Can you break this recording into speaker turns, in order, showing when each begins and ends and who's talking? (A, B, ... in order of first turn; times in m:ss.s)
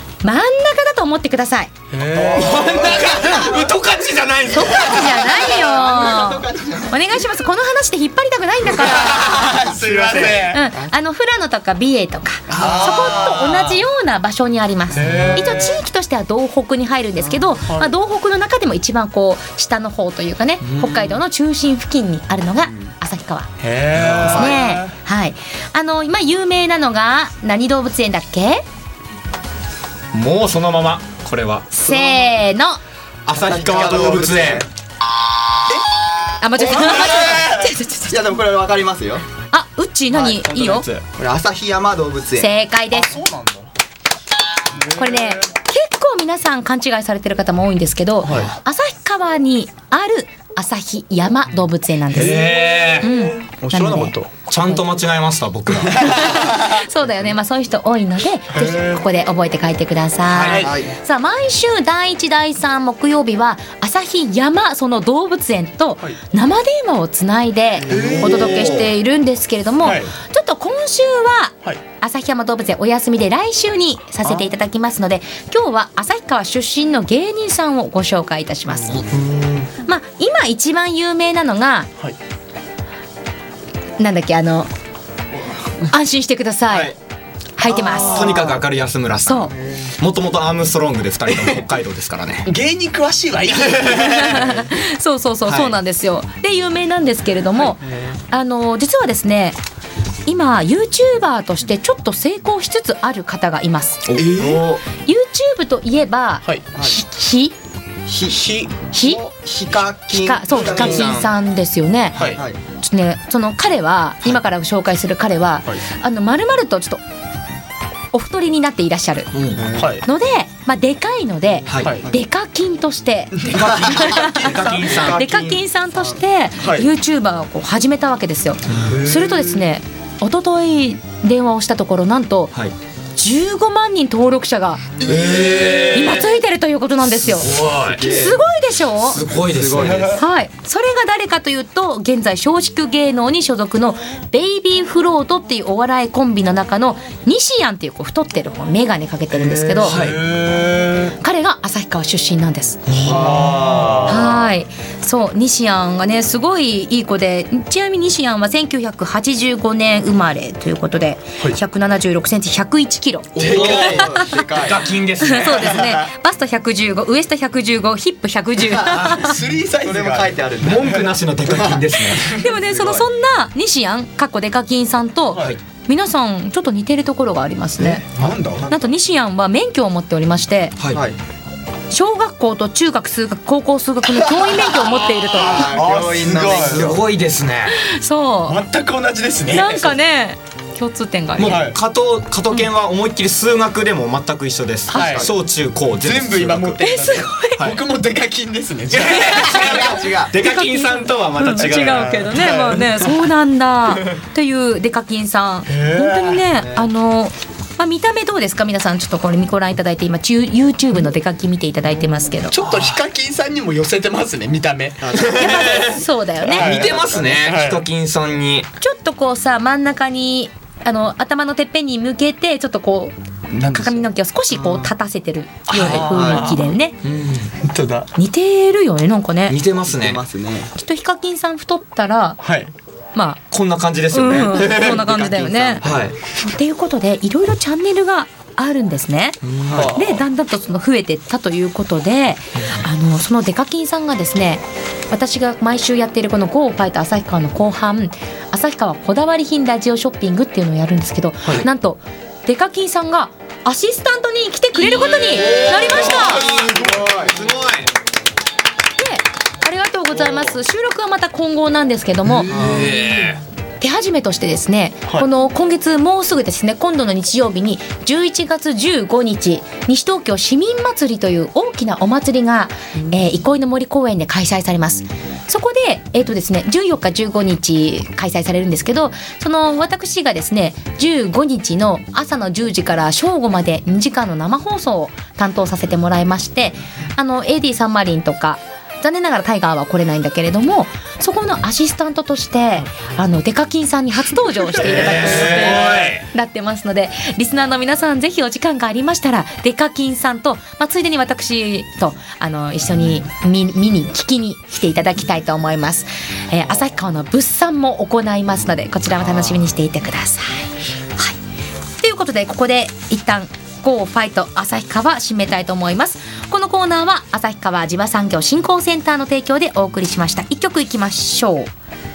0:00.2-0:01.7 A
0:01.9-0:03.3 B
0:02.4-0:05.5 C
0:02.4-0:03.6 D
0:04.5-0:09.4 A
0:04.7-0:07.0 D
0:08.8-0:10.6 B
0:09.1-0:10.9 D
0:10.2-0:23.5 A
0:12.5-0:12.9 D
0:12.5-0:13.8 B
0:12.6-0:13.2 C
0:14.9-0:15.8 B
0:17.6-0:17.9 B
0:20.7-0:21.1 C
0:23.6-0:24.9 B
0:23.9-0:24.4 C
0:24.2-0:28.6 A
0:24.3-0:24.7 D
0:30.1-0:31.7 C
0:31.7-0:32.8 A
0:31.8-0:32.3 D
0:33.3-0:34.7 C
0:33.4-0:34.7 D
0:33.9-0:34.2 B
0:36.4-0:38.2 A
0:36.6-0:37.4 D
0:36.7-0:37.4 B
0:38.1-0:39.2 D
0:39.5-0:40.9 A
0:40.1-0:40.5 D
0:40.4-0:41.0 C
0:41.1-0:42.5 D
0:42.4-0:43.2 A
0:42.9-0:43.7 B
0:44.8-0:45.3 B
0:44.9-0:54.2 A
0:48.2-0:48.5 B
0:52.1-0:53.2 C
0:52.1-0:54.3 B
0:53.7-0:54.0 D
0:54.4-0:56.3 C
0:55.9-1:19.1 A
0:58.6-0:59.0 B
1:00.3-1:00.7 C
1:00.3-1:00.7 B
1:00.6-1:00.9 D
1:07.9-1:08.7 B
1:08.0-1:08.9 C
1:09.8-1:10.1 B
1:19.0-1:19.7 C
1:19.8-1:21.9 A
1:24.0-1:24.7 A
1:25.8-1:26.9 A
1:26.7-1:27.0 C
1:27.6-1:28.4 A
1:27.7-1:28.5 B
1:28.0-1:32.5 C
1:29.3-1:29.5 A
1:29.5-1:29.9 D
1:32.4-1:34.6 B
1:33.8-1:39.6 A
1:35.5-1:35.8 C
1:40.3-1:44.0 A
1:44.0-1:44.8 C
1:44.2-1:44.6 B
1:45.0-1:47.6 A
1:48.1-1:51.2 D
1:48.3-1:48.8 B
1:48.9-1:49.2 A
1:50.1-1:52.2 A
1:50.5-1:51.3 C
1:52.1-1:52.4 B
1:52.2-1:52.6 D
1:52.8-1:57.0 A
1:58.1-1:59.4 A
1:59.3-1:59.6 C
1:59.6-1:59.9 D
1:59.8-2:00.0 B
2:00.0-2:12.6 A
2:03.5-2:05.0 D
2:03.6-2:05.6 C
2:06.6-2:06.9 B
2:08.7-2:09.0 C
2:13.2-2:14.9 A
2:15.0-2:16.4 C
2:15.9-2:19.2 A
2:17.0-2:18.2 C
2:17.9-2:18.4 D
2:19.0-2:20.2 C
2:19.4-2:20.2 D
2:20.2-2:30.0 A
2:29.5-2:31.1 B
2:29.8-2:30.2 C
2:31.2-2:32.9 A
2:32.9-2:34.1 C
2:33.0-2:34.3 B
2:33.0-2:34.4 D
2:34.1-2:44.4 A
2:43.4-2:45.9 C
2:43.4-2:44.9 D
2:45.2-2:49.4 A
2:48.7-2:49.0 D
2:48.9-2:49.3 C
2:49.0-2:50.4 B
2:49.7-2:51.8 D
2:50.6-2:52.4 C
2:52.2-2:58.1 A
2:52.5-2:53.0 B
2:57.8-2:58.7 B
2:58.6-3:00.8 A
3:00.9-3:01.2 D
3:01.9-3:05.8 A
3:05.3-3:07.0 B
3:05.4-3:07.0 D
3:06.6-3:07.8 C
3:07.7-3:08.6 A
3:08.5-3:10.0 B
3:09.5-3:11.6 A
3:11.4-3:16.9 C
3:11.4-3:11.8 B
3:14.9-3:15.3 B
3:14.9-3:15.3 D
3:16.0-3:20.0 B
3:16.8-3:17.7 A
3:18.9-3:22.1 C
3:19.4-3:20.4 D
3:20.3-3:32.6 A
3:21.6-3:23.1 B
3:25.7-3:26.4 B
3:26.5-3:26.9 D
3:32.5-3:35.4 B
3:35.0-3:35.6 D
3:35.1-3:36.9 A
3:35.4-3:38.7 C
3:36.5-3:37.8 B
3:36.9-3:37.2 D
3:38.8-3:47.0 A
3:43.6-3:43.9 D
3:44.5-3:44.9 D
3:45.7-3:46.6 B
3:45.7-3:46.1 C
3:46.0-3:46.6 D
3:47.0-3:47.5 C
3:47.6-3:48.1 B
3:48.2-3:49.6 A
3:49.5-3:50.2 C
3:49.9-3:50.7 D
3:50.8-3:52.4 A
3:52.4-3:52.7 B
3:53.1-3:53.4 A
3:53.5-3:56.2 C
3:54.1-4:16.6 A
3:59.4-4:00.2 C
3:59.7-4:00.0 B
4:14.8-4:17.9 C
4:15.4-4:17.1 B
4:16.7-4:17.2 D
4:19.0-4:22.6 A
4:22.4-4:23.2 B
4:22.5-4:23.4 C
4:23.8-5:11.4 A
4:54.8-4:56.2 C
4:55.3-4:55.6 B
5:12.0-5:21.7 A